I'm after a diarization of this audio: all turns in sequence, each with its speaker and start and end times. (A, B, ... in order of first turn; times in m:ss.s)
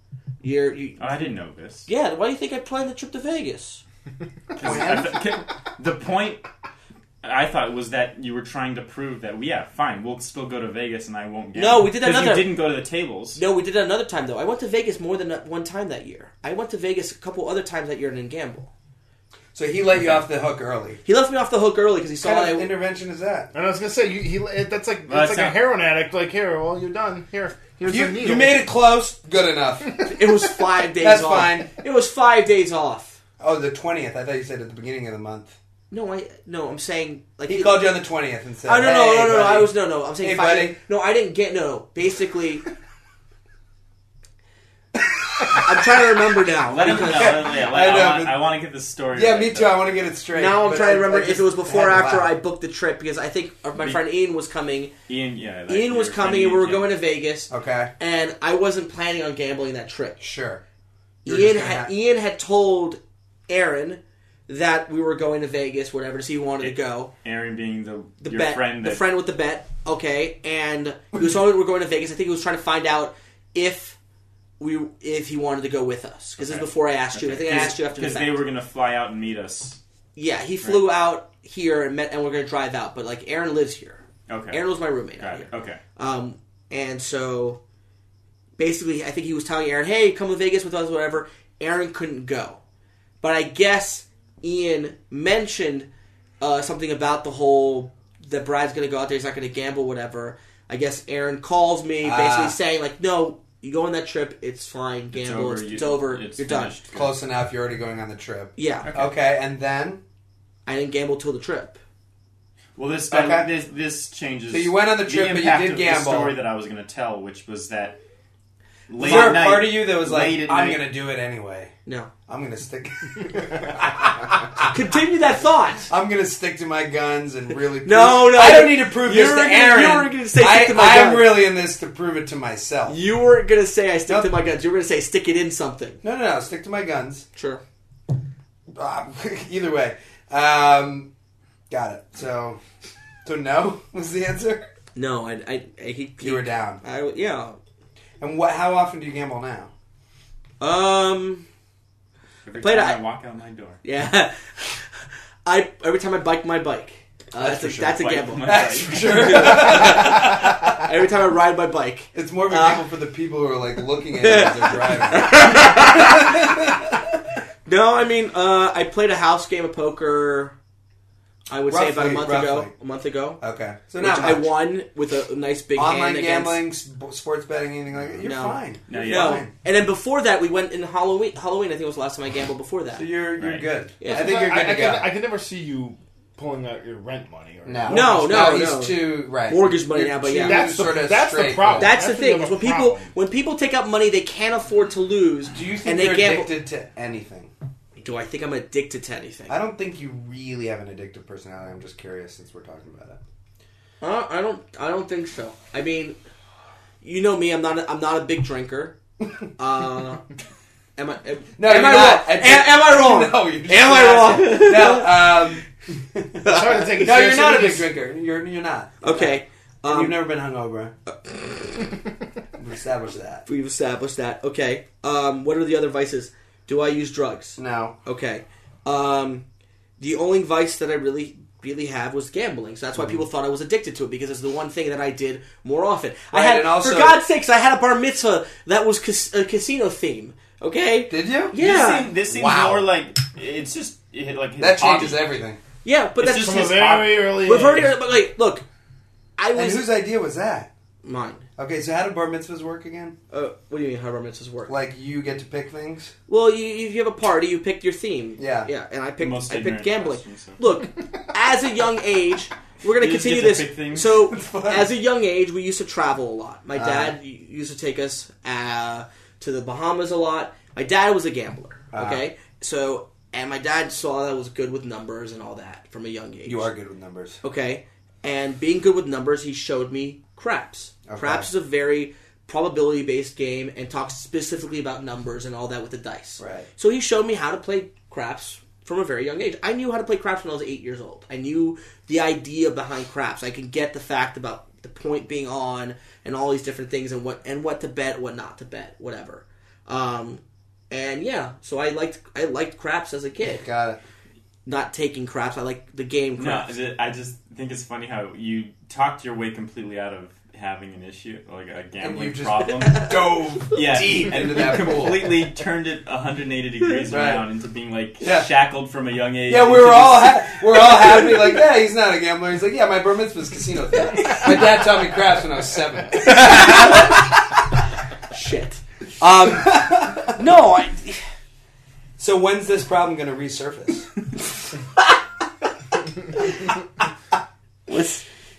0:00.4-0:01.2 A
0:01.0-0:01.9 B
0:01.9-0:03.8 A
0:04.5-0:06.4 B
0:04.6-0:05.3 C
0:07.2-0:13.4 B
0:11.6-0:12.5 A
0:13.4-0:18.7 A
0:19.6-0:21.0 C
0:20.0-0:20.2 B
0:21.0-0:22.7 A
0:22.2-0:23.5 C
0:23.5-0:28.7 D
0:25.1-0:25.6 B
0:27.9-0:30.1 C
0:30.0-0:33.2 A
0:31.0-0:31.7 C
0:33.4-0:35.6 C
0:35.9-0:37.9 A
0:37.5-0:40.8 C
0:38.6-0:42.6 A
0:45.0-0:46.0 C
0:45.5-0:47.5 A
0:46.7-0:49.9 B
0:46.8-0:48.4 C
0:49.1-0:52.3 C
0:50.3-0:54.9 A
0:55.1-0:56.9 B
0:55.7-1:00.2 A
0:57.5-0:57.9 C
1:00.2-1:00.6 C
1:01.2-1:01.9 C
1:01.2-1:07.1 A
1:06.6-1:09.0 B
1:08.2-1:14.0 A
1:14.6-1:18.4 A
1:16.4-1:19.8 B
1:20.2-1:27.6 A
1:24.3-1:25.8 B
1:28.6-1:32.6 A
1:33.2-1:35.9 A
1:36.4-1:46.8 A
1:42.0-1:42.6 C
1:45.1-1:47.2 B
1:46.9-1:50.0 C
1:48.6-1:48.9 A
1:48.8-1:49.1 B
1:50.7-1:51.8 A
1:52.8-1:58.0 B
1:53.1-1:53.5 C
1:54.5-1:56.4 C
1:58.9-2:00.8 B
1:59.0-2:01.7 C
2:02.3-2:04.8 C
2:04.7-2:05.9 A
2:05.9-2:13.0 C
2:07.8-2:11.4 A
2:12.9-2:16.0 A
2:16.0-2:17.3 C
2:17.4-2:17.6 A
2:18.7-2:21.1 C
2:21.7-2:22.6 C
2:23.2-2:24.6 C
2:25.0-2:27.6 A
2:26.2-2:26.8 C
2:28.2-2:29.7 C
2:30.6-2:31.5 A
2:32.4-2:33.8 B
2:32.6-2:33.0 A
2:33.8-2:42.8 A
2:37.4-2:40.8 C
2:37.7-2:39.7 B
2:42.1-2:47.0 C
2:44.2-2:46.6 A
2:47.7-2:50.6 A
2:51.5-2:53.4 A
2:51.7-2:52.7 C
2:53.4-2:54.5 C
2:54.0-2:56.6 A
2:55.8-2:59.5 C
2:58.2-3:03.0 A
2:58.9-2:59.4 B
3:03.0-3:05.1 C
3:03.4-3:03.7 B
3:04.0-3:04.4 A
3:04.1-3:08.5 D
3:07.6-3:11.9 C
3:07.9-3:10.7 A
3:10.4-3:13.1 D
3:11.8-3:16.5 A
3:15.5-3:17.5 C
3:18.0-3:19.6 A
3:19.5-3:23.2 C
3:24.0-3:26.2 A
3:27.0-3:29.0 A
3:29.6-3:30.2 A
3:31.0-3:35.6 A
3:31.6-3:41.0 C
3:36.4-3:36.9 A
3:36.4-3:37.9 D
3:39.0-3:40.2 A
3:41.1-3:41.9 A
3:42.6-3:43.5 C
3:43.5-3:49.4 A
3:47.6-3:48.0 C
3:50.0-4:02.1 A
3:53.0-3:53.2 C
3:56.3-3:57.2 C
4:01.1-4:01.6 C
4:01.6-4:05.3 B
4:02.3-4:02.8 C
4:04.6-4:05.6 C
4:05.8-4:08.6 A
4:06.2-4:07.2 B
4:06.3-4:08.0 D
4:09.4-4:09.9 A
4:09.5-4:10.7 C
4:11.0-4:11.4 A
4:11.6-4:13.2 C
4:13.3-4:14.7 A
4:14.7-4:16.1 C
4:16.3-4:36.7 A
4:18.4-4:18.7 C
4:19.2-4:20.6 B
4:23.0-4:24.3 B
4:24.3-4:24.9 C
4:26.8-4:27.2 C
4:31.9-4:32.2 C
4:36.5-4:37.4 C
4:37.4-5:03.6 A
4:41.1-4:41.5 C
4:46.4-4:46.7 C
5:03.5-5:04.0 C
5:04.7-5:06.7 A
5:06.4-5:20.5 B
5:12.0-5:15.4 C
5:17.1-5:17.4 C
5:18.2-5:18.5 C
5:19.5-5:27.3 C
5:26.2-5:27.2 A
5:28.3-5:31.2 A
5:29.3-5:30.4 C
5:32.2-5:34.1 C
5:37.9-5:38.2 A